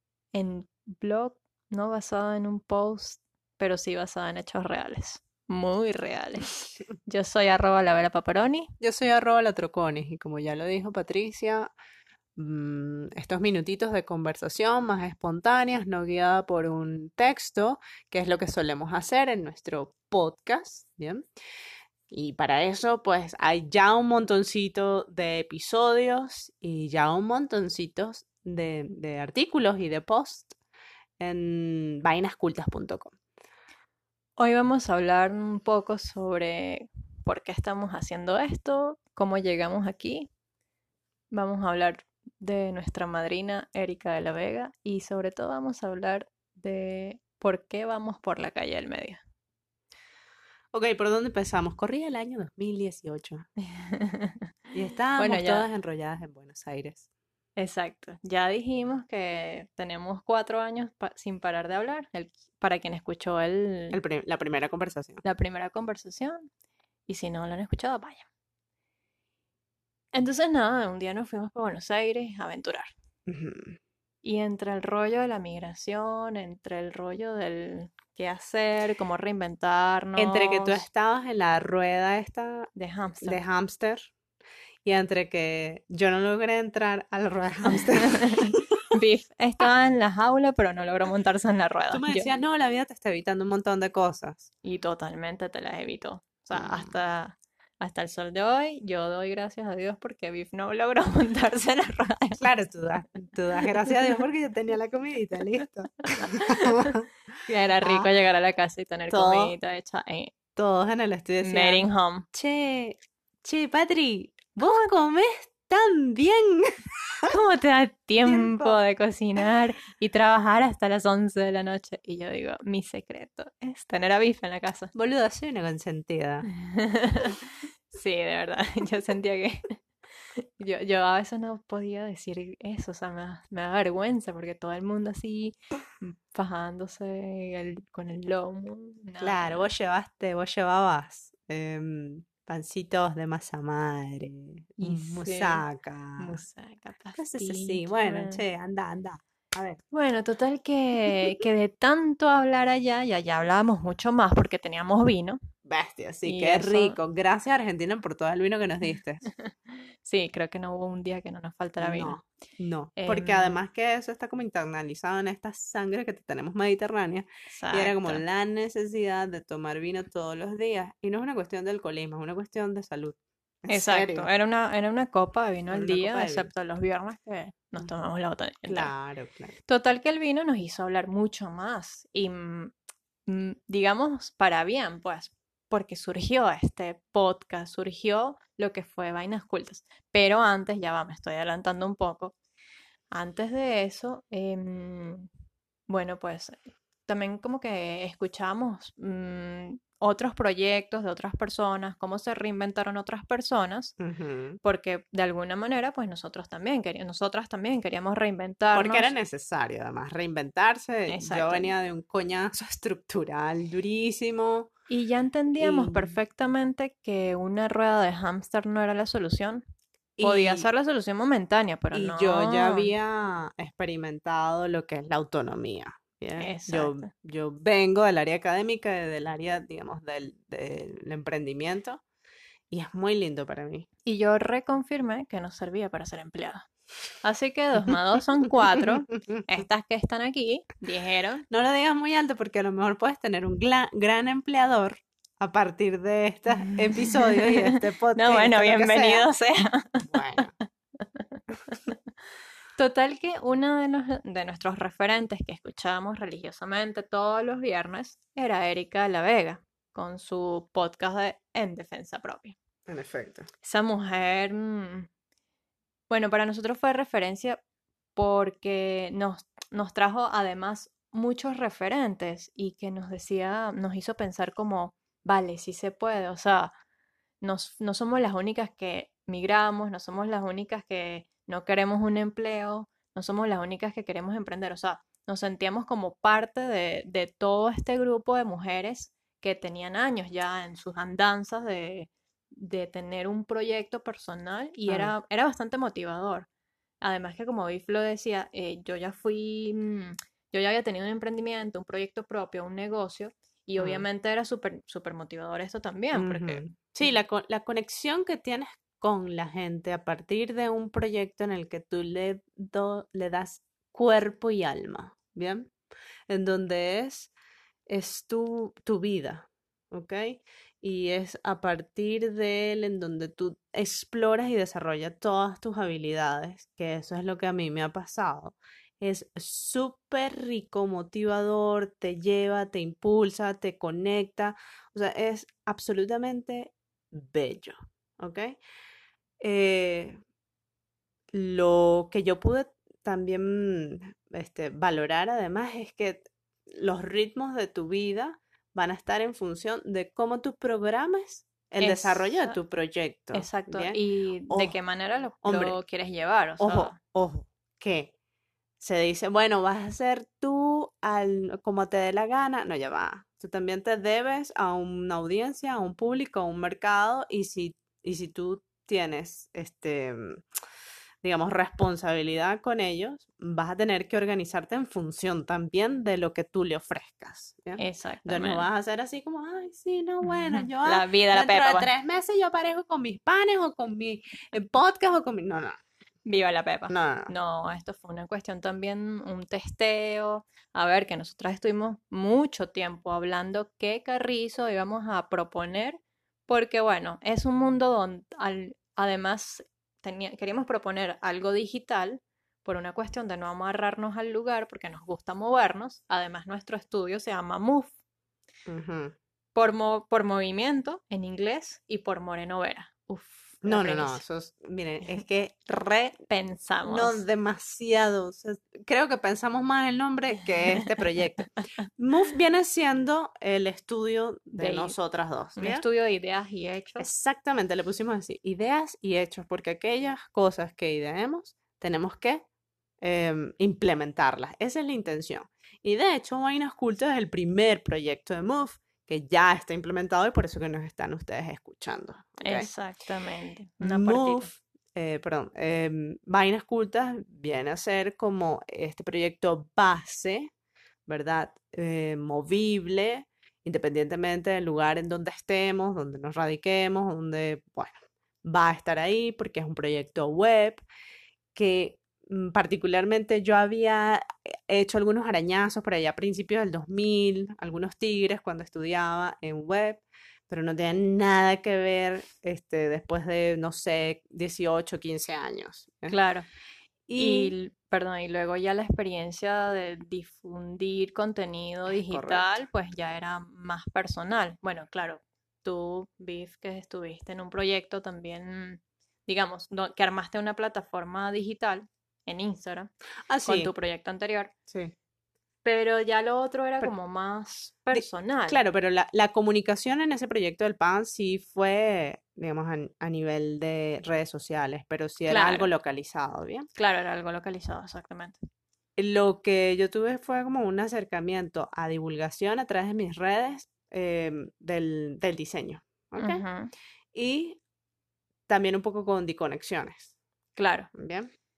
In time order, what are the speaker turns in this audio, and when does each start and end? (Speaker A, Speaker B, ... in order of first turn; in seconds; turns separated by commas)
Speaker A: 0.3-8.7, Speaker B: 8.8-11.7, Speaker B: 12.3-21.2, Speaker B: 22.1-30.5, Speaker B: 31.2-33.1, Speaker A: 34.4-40.3, Speaker A: 41.3-49.2, Speaker B: 50.7-53.5, Speaker A: 53.6-54.5, Speaker B: 54.7-57.1, Speaker A: 55.2-55.7, Speaker A: 57.6-64.0, Speaker B: 63.9-65.2, Speaker A: 65.2-66.5, Speaker A: 67.1-68.2, Speaker A: 70.1-72.9, Speaker B: 73.3-73.8, Speaker A: 74.2-80.8, Speaker B: 80.2-82.7, Speaker A: 82.7-83.4, Speaker B: 83.2-84.1, Speaker B: 84.8-88.6, Speaker A: 88.2-92.3, Speaker B: 91.9-94.5, Speaker A: 94.6-102.4, Speaker B: 96.5-96.9, Speaker B: 102.4-107.0, Speaker A: 106.3-106.9, Speaker A: 107.5-110.3, Speaker B: 107.8-108.1, Speaker B: 109.1-109.5, Speaker B: 110.5-117.3, Speaker A: 111.4-112.2, Speaker A: 114.6-114.9, Speaker A: 117.3-124.9, Speaker B: 118.2-118.8, Speaker B: 124.9-126.5, Speaker A: 126.5-129.8, Speaker A: 130.4-139.7, Speaker B: 139.2-146.4, Speaker A: 144.8-145.6, Speaker A: 146.2-148.4, Speaker B: 147.2-149.8, Speaker A: 149.9-155.4, Speaker B: 155.7-159.2, Speaker A: 156.2-157.0, Speaker A: 159.3-162.2, Speaker B: 161.8-174.3, Speaker A: 163.0-163.6, Speaker A: 167.5-168.2, Speaker A: 173.7-178.9, Speaker B: 175.7-176.5, Speaker B: 178.7-179.6, Speaker A: 179.7-182.7, Speaker A: 183.3-192.3, Speaker A: 193.1-195.3, Speaker A: 195.9-203.9, Speaker B: 204.0-204.6, Speaker A: 204.6-209.1, Speaker B: 208.7-214.7, Speaker A: 211.1-211.7, Speaker A: 214.9-219.6, Speaker B: 215.6-216.2, Speaker B: 220.2-220.7, Speaker A: 220.2-222.9, Speaker B: 221.9-232.0, Speaker A: 226.4-227.1, Speaker B: 232.7-233.8, Speaker A: 234.1-236.7, Speaker A: 237.2-241.4, Speaker B: 241.5-249.2, Speaker A: 246.7-252.0, Speaker B: 250.0-250.5, Speaker A: 252.8-262.6, Speaker B: 262.9-263.5, Speaker A: 263.6-265.1, Speaker A: 266.1-267.6, Speaker A: 268.1-276.7, Speaker A: 277.4-296.5, Speaker B: 294.9-295.1, Speaker A: 297.0-306.6, Speaker B: 303.8-304.1, Speaker B: 306.1-315.7, Speaker B: 316.3-317.3, Speaker B: 317.9-338.6, Speaker B: 339.4-340.2, Speaker B: 341.3-354.8, Speaker A: 351.8-352.6, Speaker A: 353.3-357.0, Speaker B: 355.4-355.8, Speaker B: 356.6-358.1, Speaker B: 358.8-370.4, Speaker B: 371.2-385.8, Speaker A: 377.8-378.7, Speaker A: 380.2-381.9, Speaker A: 386.2-407.9, Speaker B: 386.9-387.3, Speaker B: 408.7-409.1, Speaker A: 409.5-414.2, Speaker B: 413.6-416.2, Speaker A: 416.3-417.2, Speaker B: 416.8-425.8, Speaker A: 424.5-424.9, Speaker A: 425.6-427.1, Speaker B: 427.0-432.4, Speaker B: 433.0-442.7, Speaker A: 442.4-444.5, Speaker B: 443.8-450.5, Speaker B: 451.1-460.8, Speaker B: 461.5-476.1, Speaker A: 476.1-476.5, Speaker B: 477.1-477.5, Speaker A: 477.1-492.9, Speaker B: 481.9-482.5, Speaker B: 493.3-493.7, Speaker A: 493.4-494.5, Speaker A: 495.6-498.6, Speaker B: 497.9-506.7, Speaker A: 505.3-505.7, Speaker A: 506.8-508.4, Speaker B: 509.0-516.4, Speaker A: 516.2-516.7, Speaker B: 517.1-517.6, Speaker B: 518.5-520.1, Speaker A: 520.5-520.9, Speaker B: 521.0-521.3